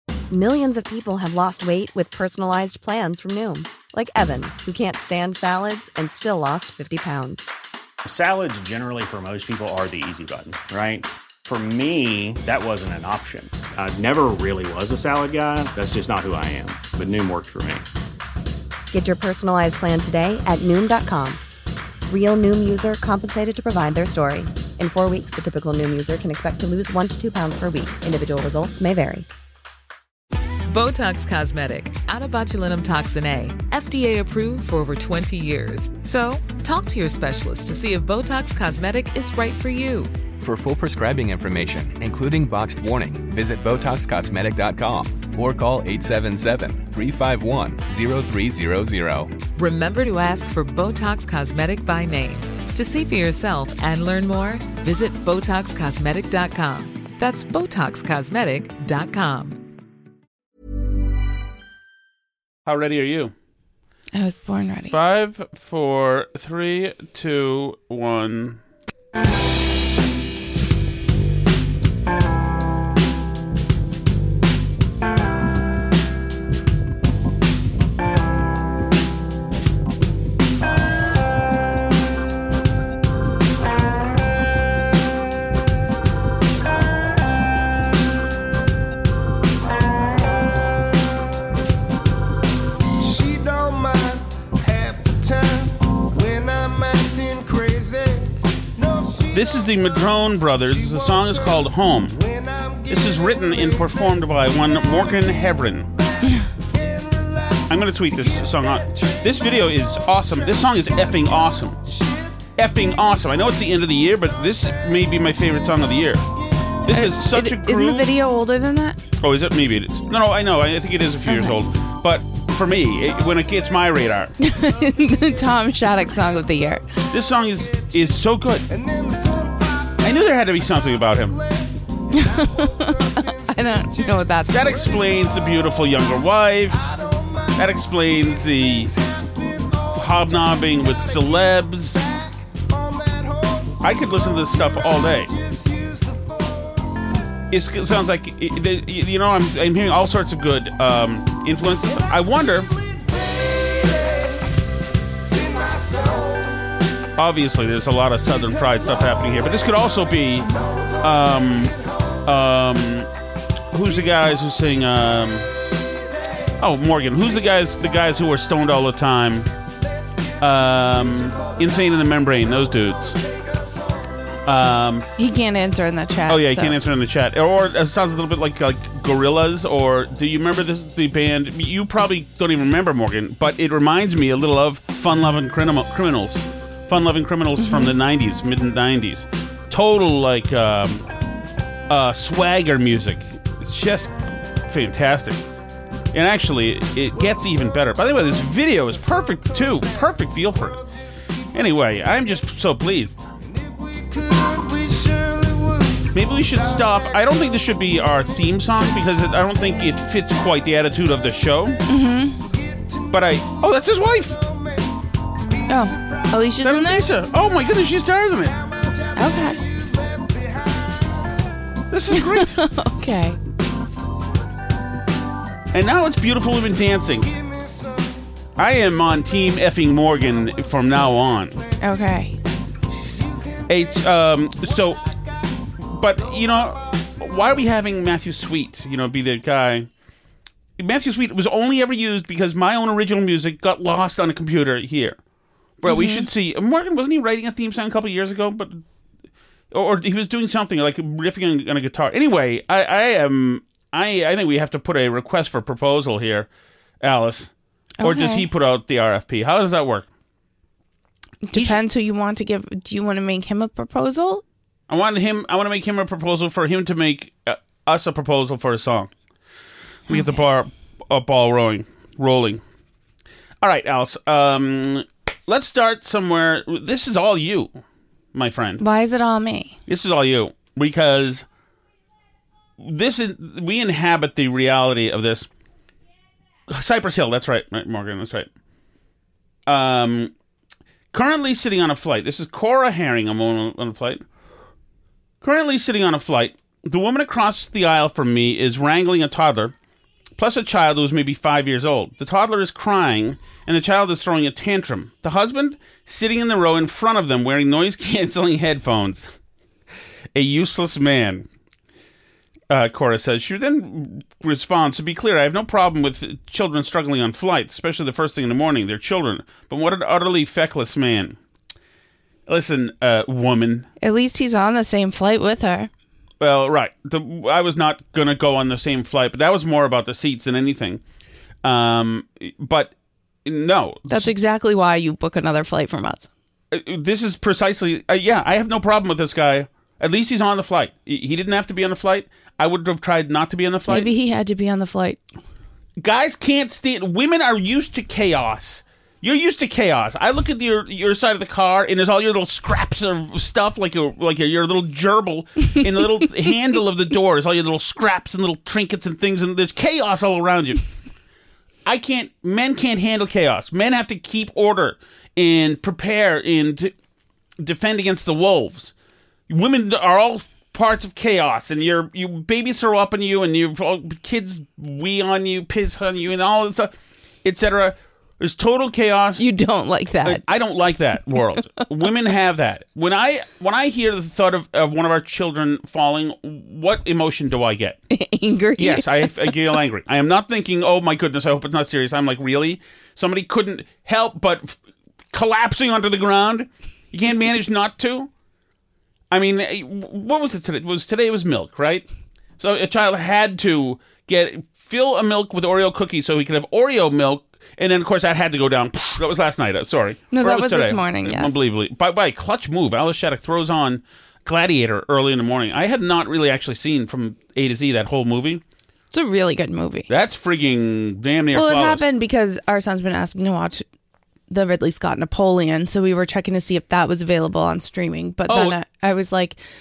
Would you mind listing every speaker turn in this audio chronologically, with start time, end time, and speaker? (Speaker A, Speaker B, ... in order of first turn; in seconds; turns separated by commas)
Speaker A: 0.3-7.5, Speaker B: 8.0-17.8, Speaker A: 18.9-21.4, Speaker A: 22.1-29.3, Speaker C: 30.7-40.1, Speaker D: 40.4-49.3, Speaker C: 49.6-59.6, Speaker E: 62.6-63.3, Speaker F: 64.1-65.0, Speaker E: 64.9-68.6, Speaker E: 99.3-102.3, Speaker E: 102.8-105.9, Speaker E: 107.7-111.8, Speaker E: 112.5-116.3, Speaker E: 116.8-118.1, Speaker F: 116.9-119.0, Speaker E: 119.2-124.3, Speaker F: 121.2-121.6, Speaker F: 124.4-127.0, Speaker E: 127.1-128.7, Speaker E: 130.0-131.4, Speaker F: 132.1-134.8, Speaker E: 134.5-139.0, Speaker E: 139.8-142.2, Speaker E: 143.7-145.4, Speaker E: 147.5-152.8, Speaker E: 157.2-163.1, Speaker E: 163.7-165.5, Speaker E: 166.6-169.5, Speaker E: 170.4-173.2, Speaker E: 174.4-175.1, Speaker F: 175.2-176.8, Speaker E: 176.3-191.1, Speaker F: 187.6-187.9, Speaker E: 191.9-195.4, Speaker E: 196.1-200.9, Speaker E: 201.5-203.3, Speaker E: 206.1-211.8, Speaker F: 211.9-212.4, Speaker E: 213.1-214.4, Speaker F: 215.7-217.0, Speaker E: 216.6-218.6, Speaker F: 219.1-219.6, Speaker E: 221.9-222.6, Speaker F: 222.1-223.4, Speaker E: 225.7-227.3, Speaker E: 228.6-231.6, Speaker F: 231.8-232.4, Speaker E: 232.9-235.0, Speaker E: 235.8-239.9, Speaker E: 240.8-245.2, Speaker E: 245.8-248.8, Speaker F: 245.8-246.3, Speaker E: 249.7-256.5, Speaker E: 257.0-260.1, Speaker F: 258.0-258.5, Speaker F: 261.4-264.4, Speaker E: 264.9-269.1, Speaker F: 270.1-270.4, Speaker E: 270.1-272.6, Speaker E: 273.6-277.8, Speaker E: 278.3-278.8, Speaker F: 278.8-279.8, Speaker E: 279.9-281.4, Speaker E: 282.8-285.5, Speaker E: 286.7-288.5, Speaker E: 289.6-290.3, Speaker E: 291.1-294.2, Speaker E: 295.4-299.7, Speaker E: 300.4-309.3, Speaker E: 310.3-311.5, Speaker E: 312.7-321.4, Speaker E: 322.5-323.9, Speaker F: 324.0-325.9, Speaker E: 326.4-331.0, Speaker E: 331.6-334.3, Speaker F: 334.1-336.3, Speaker E: 336.7-344.1, Speaker F: 343.9-345.2, Speaker E: 346.0-360.8, Speaker E: 361.8-366.9, Speaker E: 367.6-368.9, Speaker E: 369.5-379.4, Speaker F: 379.4-380.4, Speaker E: 380.2-388.0, Speaker F: 388.1-389.6, Speaker E: 388.8-394.8, Speaker E: 395.3-398.3, Speaker E: 399.3-402.1, Speaker E: 402.6-418.6, Speaker F: 410.3-411.6, Speaker F: 419.1-420.1, Speaker E: 420.1-422.1, Speaker F: 421.5-423.8, Speaker F: 424.5-429.6, Speaker E: 428.5-428.8